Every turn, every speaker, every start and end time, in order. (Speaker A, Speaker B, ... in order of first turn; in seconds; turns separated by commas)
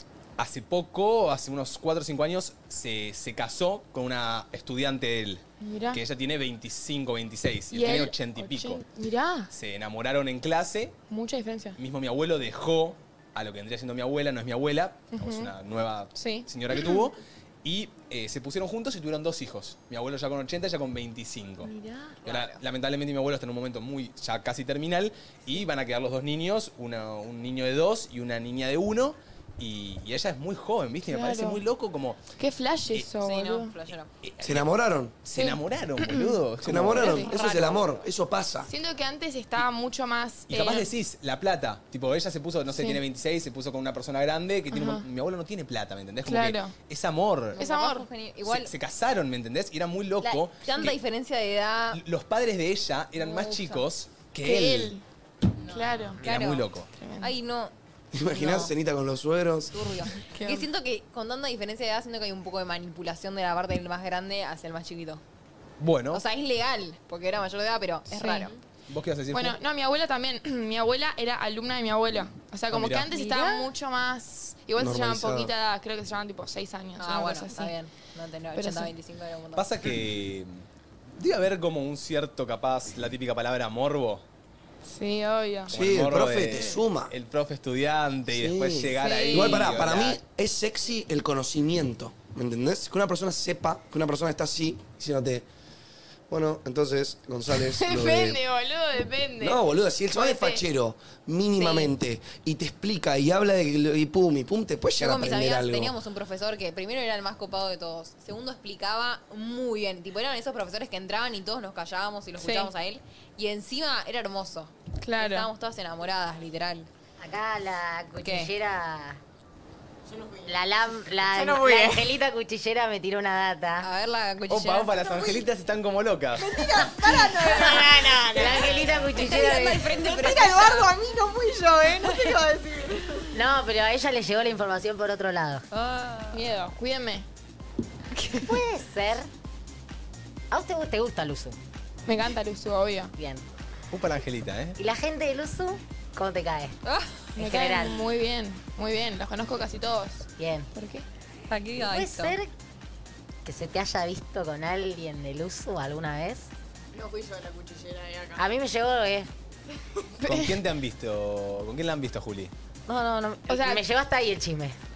Speaker A: 0.4-8.8, Speaker B: 5.6-6.0, Speaker B: 7.7-9.5, Speaker A: 9.5-10.9, Speaker B: 11.1-11.8, Speaker A: 11.8-21.7, Speaker B: 15.1-15.5, Speaker B: 16.1-17.0, Speaker B: 21.6-22.2, Speaker C: 22.2-22.6, Speaker A: 22.2-32.2, Speaker B: 31.1-31.6, Speaker B: 32.4-33.7, Speaker C: 33.2-34.1, Speaker A: 34.2-34.6, Speaker D: 34.4-35.1, Speaker A: 35.2-37.3, Speaker B: 35.3-36.4, Speaker D: 36.6-38.7, Speaker B: 37.0-37.9, Speaker B: 38.6-40.9, Speaker A: 40.5-47.6, Speaker B: 44.7-45.0, Speaker B: 46.2-46.7, Speaker B: 47.5-48.1, Speaker C: 47.5-48.7, Speaker A: 48.5-51.0, Speaker C: 50.2-52.0, Speaker A: 51.9-54.9, Speaker C: 53.2-53.9, Speaker B: 54.4-55.0, Speaker B: 55.7-56.2, Speaker C: 55.7-56.7, Speaker A: 56.2-56.9, Speaker B: 57.0-57.3, Speaker C: 57.2-57.7, Speaker D: 58.1-59.7, Speaker C: 58.3-58.7, Speaker C: 59.7-65.2, Speaker B: 60.3-60.6, Speaker A: 65.8-66.2, Speaker C: 66.1-68.5, Speaker B: 68.1-68.5, Speaker A: 68.9-69.6, Speaker B: 69.3-77.7, Speaker A: 72.7-73.1, Speaker C: 73.1-73.7, Speaker D: 74.8-75.5, Speaker C: 77.0-79.7, Speaker B: 78.5-78.9, Speaker A: 79.5-80.6, Speaker A: 81.2-84.2, Speaker B: 84.8-85.7, Speaker A: 85.7-90.2, Speaker D: 85.7-87.1, Speaker D: 88.3-95.5, Speaker B: 89.0-89.6, Speaker C: 89.0-89.3, Speaker D: 96.3-98.4, Speaker B: 97.5-99.6, Speaker D: 99.4-105.9, Speaker B: 100.1-100.6, Speaker B: 101.6-101.9, Speaker C: 105.0-116.9, Speaker B: 112.4-112.7, Speaker B: 115.0-115.5, Speaker E: 117.2-119.2, Speaker C: 118.2-118.5, Speaker E: 120.4-123.9, Speaker F: 121.3-122.1, Speaker C: 123.8-125.0, Speaker A: 124.5-126.8, Speaker F: 125.0-125.4, Speaker F: 126.4-133.2, Speaker C: 127.0-130.9, Speaker E: 127.5-129.9, Speaker C: 132.0-132.4, Speaker E: 133.3-135.6, Speaker C: 135.7-136.4, Speaker B: 136.3-137.2, Speaker E: 138.4-139.3, Speaker E: 140.5-141.6, Speaker B: 142.1-143.1, Speaker E: 143.2-143.4, Speaker A: 143.9-144.8, Speaker E: 144.8-146.8, Speaker B: 147.3-151.0, Speaker E: 147.4-148.0, Speaker E: 150.4-150.7, Speaker C: 151.5-152.4, Speaker E: 151.8-152.5, Speaker E: 153.4-156.5, Speaker F: 156.9-158.4, Speaker E: 158.3-159.3, Speaker B: 160.2-160.5, Speaker A: 160.2-162.5, Speaker E: 162.9-164.8, Speaker B: 163.5-163.8